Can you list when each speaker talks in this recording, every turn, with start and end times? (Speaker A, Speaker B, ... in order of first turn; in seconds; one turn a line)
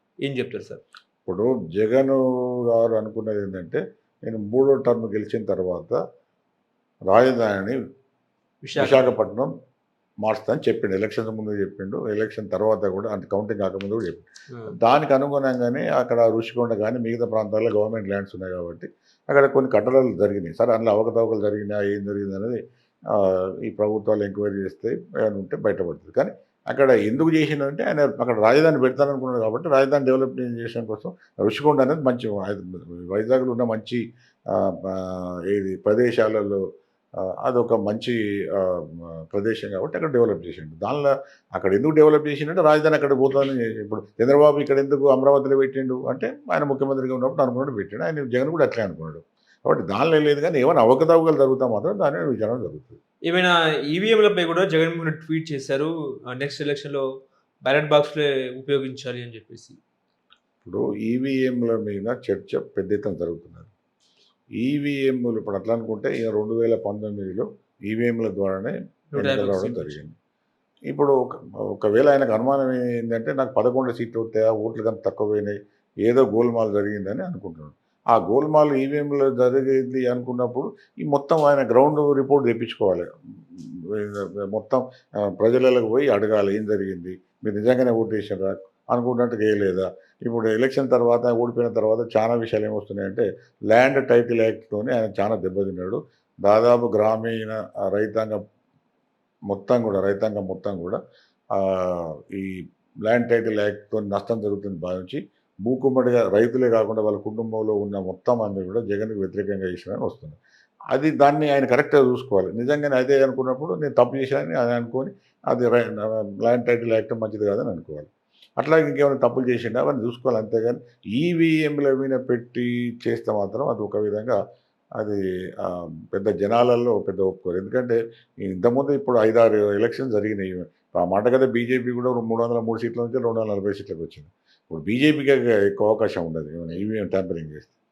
Speaker A: 0.2-0.8
Speaker B: 1.2-6.0
Speaker B: 7.1-7.8
Speaker A: 8.6-9.2
Speaker B: 8.8-9.5
Speaker B: 10.2-22.6
Speaker B: 23.1-36.6
Speaker B: 37.2-53.0
Speaker A: 53.2-57.0
Speaker A: 57.6-59.8
Speaker B: 60.6-63.7
Speaker B: 64.6-70.1
Speaker A: 69.1-70.0
Speaker B: 70.9-98.4
Speaker B: 99.5-101.0
Speaker B: 101.5-110.4
Speaker B: 110.9-124.4
Speaker B: 125.0-137.7